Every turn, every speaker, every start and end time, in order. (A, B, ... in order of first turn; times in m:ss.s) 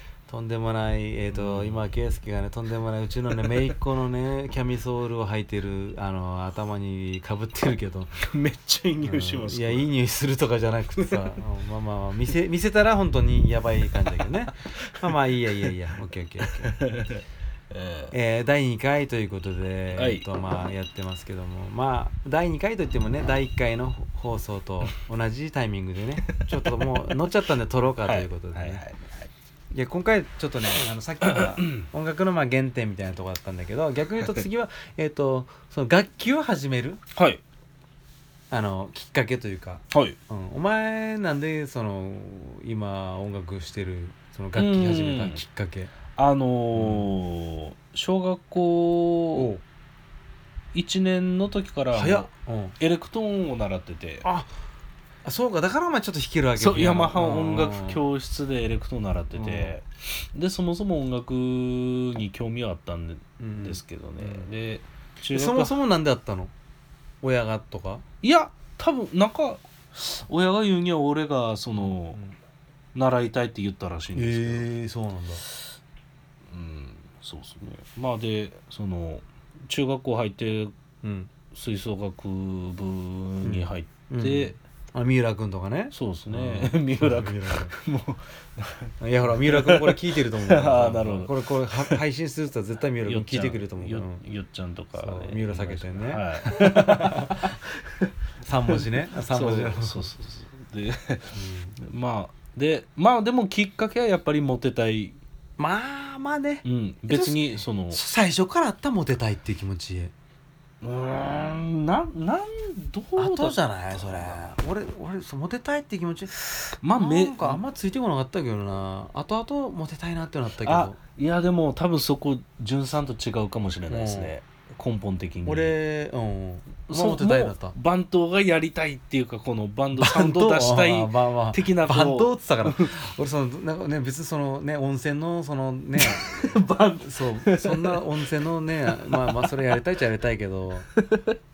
0:00.3-0:08.2 A
0:01.3-0:01.8 B
0:08.2-0:09.9 B
0:09.0-0:16.7 A
0:11.0-0:11.3 B
0:14.6-0:15.1 B
0:16.4-0:18.1 B
0:18.1-0:28.8 A
0:19.9-0:20.2 B
0:26.3-0:27.2 B
0:28.0-0:29.3 B
0:29.7-0:37.0 A
0:31.2-0:31.8 B
0:37.1-0:37.4 B
0:38.5-0:45.9 A
0:39.9-0:40.2 B
0:44.6-0:45.4 B
0:46.1-0:49.5 B
0:46.7-0:47.1 A
0:49.3-0:49.6 A
0:50.7-0:52.3 B
0:51.9-0:52.8 A
0:52.8-0:54.2 B
0:54.2-0:54.5 A
0:55.2-0:58.0 A
0:56.6-1:05.8 B
0:59.3-0:59.8 A
1:03.4-1:04.5 A
1:05.3-1:06.5 A
1:07.2-1:08.0 A
1:08.2-1:12.2 B
1:11.8-1:12.4 A
1:12.9-1:14.7 B
1:14.1-1:15.4 A
1:16.5-1:20.7 B
1:21.0-1:21.3 A
1:21.5-1:24.6 B
1:23.4-1:27.7 A
1:25.9-1:32.0 B
1:29.0-1:34.2 A
1:33.0-1:38.1 B
1:34.9-1:37.6 A
1:38.4-1:40.1 A
1:38.7-1:45.2 B
1:41.3-1:41.8 A
1:45.6-1:50.1 A
1:46.6-1:48.0 B
1:50.8-1:54.5 B
1:53.2-2:01.0 A
1:56.8-1:57.6 B
2:00.6-2:05.8 B
2:03.9-2:04.3 A
2:05.4-2:07.8 A
2:06.9-2:12.9 B
2:09.9-2:20.9 A
2:16.0-2:18.1 B
2:18.9-2:19.7 B
2:20.9-2:21.4 B